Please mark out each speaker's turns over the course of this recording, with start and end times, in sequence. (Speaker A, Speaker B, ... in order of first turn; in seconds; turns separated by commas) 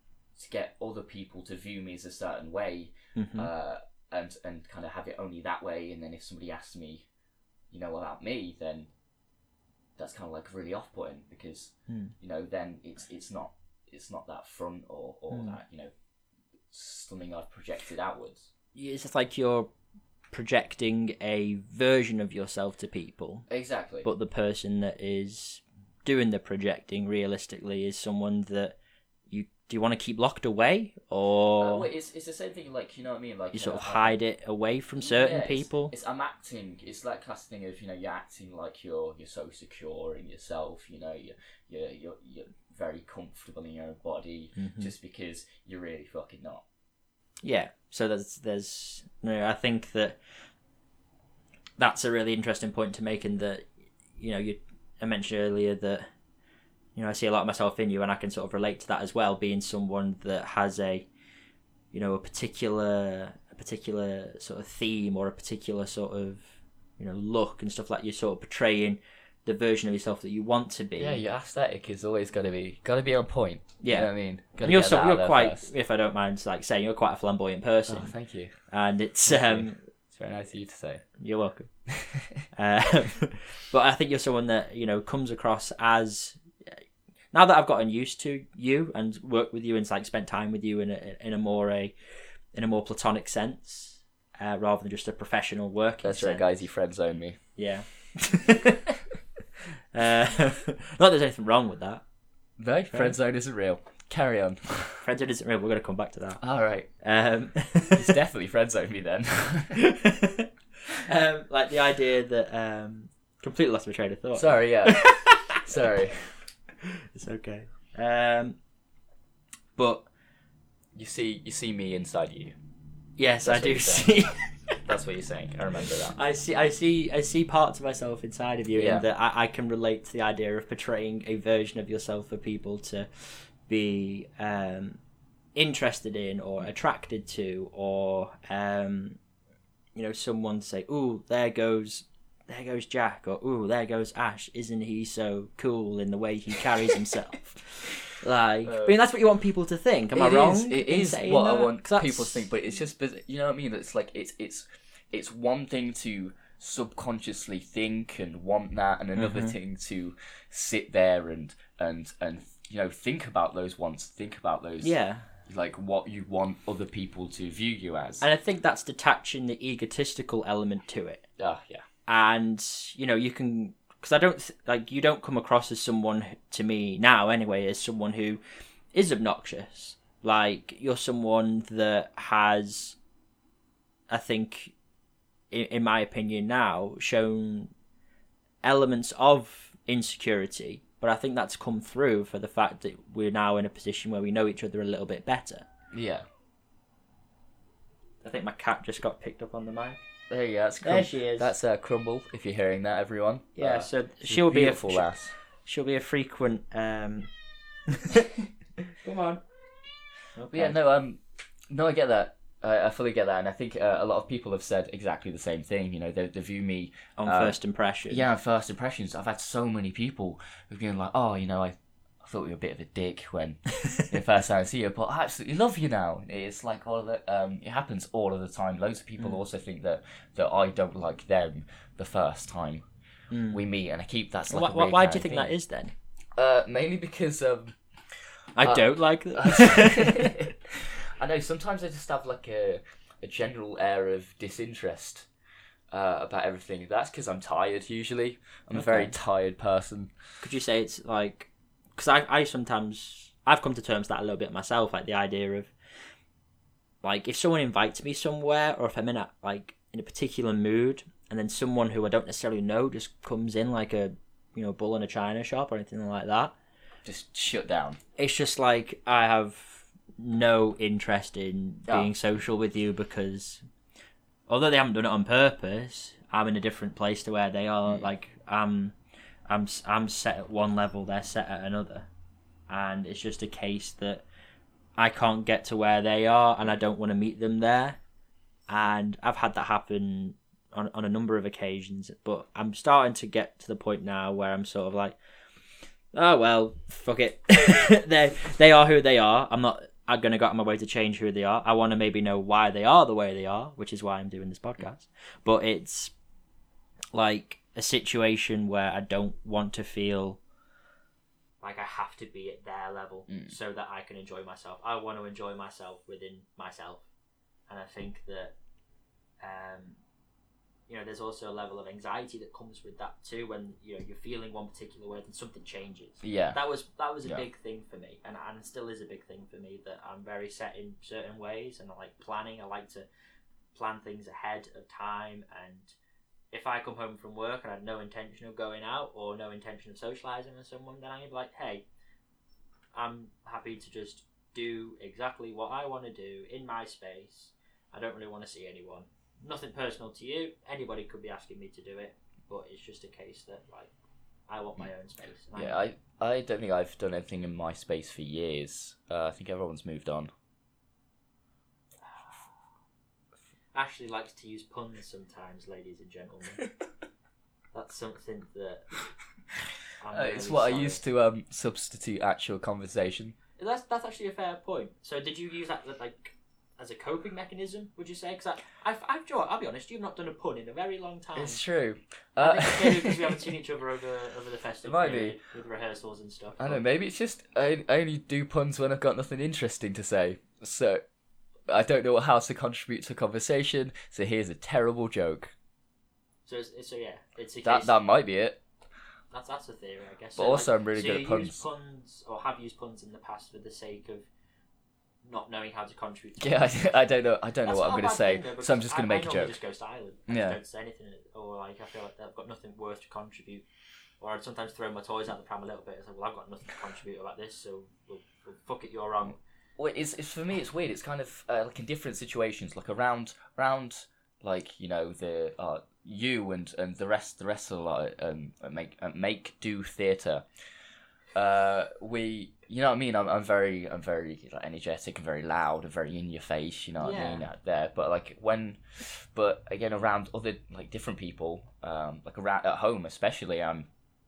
Speaker A: 0.4-7.1, Speaker B: 3.1-3.5, Speaker A: 7.7-8.9, Speaker A: 10.0-15.9, Speaker B: 11.9-12.1, Speaker B: 15.3-15.6, Speaker A: 16.7-18.5, Speaker B: 18.8-19.7, Speaker B: 20.3-23.5, Speaker A: 23.5-24.1, Speaker B: 24.0-28.8, Speaker B: 29.3-31.9, Speaker A: 31.6-34.2, Speaker B: 33.5-35.9, Speaker A: 35.0-46.6, Speaker B: 44.6-44.9, Speaker B: 47.4-50.2, Speaker B: 51.8-56.1, Speaker B: 57.0-61.1, Speaker B: 61.9-71.2, Speaker A: 71.0-75.7, Speaker B: 73.8-79.8, Speaker A: 77.9-78.5, Speaker A: 79.3-81.1, Speaker B: 81.2-81.9, Speaker A: 82.0-82.4, Speaker B: 82.5-86.8, Speaker B: 87.3-91.9, Speaker B: 92.5-96.5, Speaker A: 96.0-97.4, Speaker B: 97.6-98.9, Speaker B: 99.9-102.0, Speaker A: 102.6-105.0, Speaker B: 105.0-106.4, Speaker A: 106.4-106.9, Speaker B: 107.0-108.1, Speaker A: 108.0-109.8, Speaker B: 109.8-115.7, Speaker A: 114.3-116.4, Speaker B: 116.8-118.6, Speaker B: 119.8-120.1, Speaker A: 121.0-122.5, Speaker B: 123.2-124.8, Speaker A: 123.5-126.2, Speaker B: 126.2-135.0, Speaker A: 128.8-129.1, Speaker B: 135.6-139.2, Speaker B: 139.9-152.5, Speaker A: 148.7-149.0, Speaker A: 150.1-164.9, Speaker B: 159.2-159.5, Speaker B: 164.8-165.3, Speaker A: 165.5-168.2, Speaker B: 168.2-171.2, Speaker A: 171.4-171.8, Speaker B: 172.1-178.4, Speaker B: 178.9-183.0, Speaker B: 184.1-184.7, Speaker B: 185.5-187.7, Speaker B: 188.6-195.7, Speaker A: 195.9-196.3, Speaker B: 198.2-200.0, Speaker A: 200.3-205.3, Speaker B: 200.8-201.5, Speaker B: 203.6-207.3, Speaker B: 207.9-208.3, Speaker B: 208.9-209.4, Speaker B: 210.3-210.8, Speaker A: 210.5-217.6, Speaker B: 217.2-218.2, Speaker A: 218.1-232.8, Speaker B: 233.3-233.6, Speaker A: 233.5-235.5, Speaker B: 234.5-235.9, Speaker A: 236.4-245.3, Speaker B: 238.6-240.4, Speaker A: 245.9-250.1, Speaker B: 248.7-249.2, Speaker B: 250.4-255.7, Speaker B: 257.0-266.5, Speaker A: 267.1-268.0, Speaker B: 268.2-273.6, Speaker B: 274.5-279.0, Speaker B: 279.5-282.1, Speaker B: 282.7-284.2, Speaker B: 285.0-288.0, Speaker B: 288.7-295.2, Speaker B: 296.1-306.1, Speaker B: 307.1-310.4, Speaker B: 311.6-317.1, Speaker A: 313.3-313.6, Speaker B: 317.7-318.5, Speaker B: 319.4-320.0, Speaker B: 320.9-333.1, Speaker A: 326.2-326.6, Speaker B: 333.7-335.9, Speaker B: 336.5-341.8, Speaker B: 342.9-353.9, Speaker B: 354.5-355.8, Speaker A: 355.5-360.3, Speaker B: 363.7-366.7, Speaker B: 367.7-368.9, Speaker B: 370.0-371.0, Speaker A: 370.1-373.4, Speaker B: 373.6-381.6, Speaker A: 381.4-383.4, Speaker B: 382.4-386.8, Speaker A: 384.8-385.4, Speaker A: 386.6-391.0, Speaker A: 391.7-395.5, Speaker B: 396.5-398.0, Speaker A: 397.6-398.6, Speaker B: 399.3-404.3, Speaker A: 400.4-401.6, Speaker B: 405.2-406.9, Speaker A: 406.4-409.6, Speaker B: 407.6-413.7, Speaker A: 410.3-410.6, Speaker B: 414.2-419.4, Speaker A: 419.8-430.5, Speaker A: 431.3-443.9, Speaker B: 437.0-437.4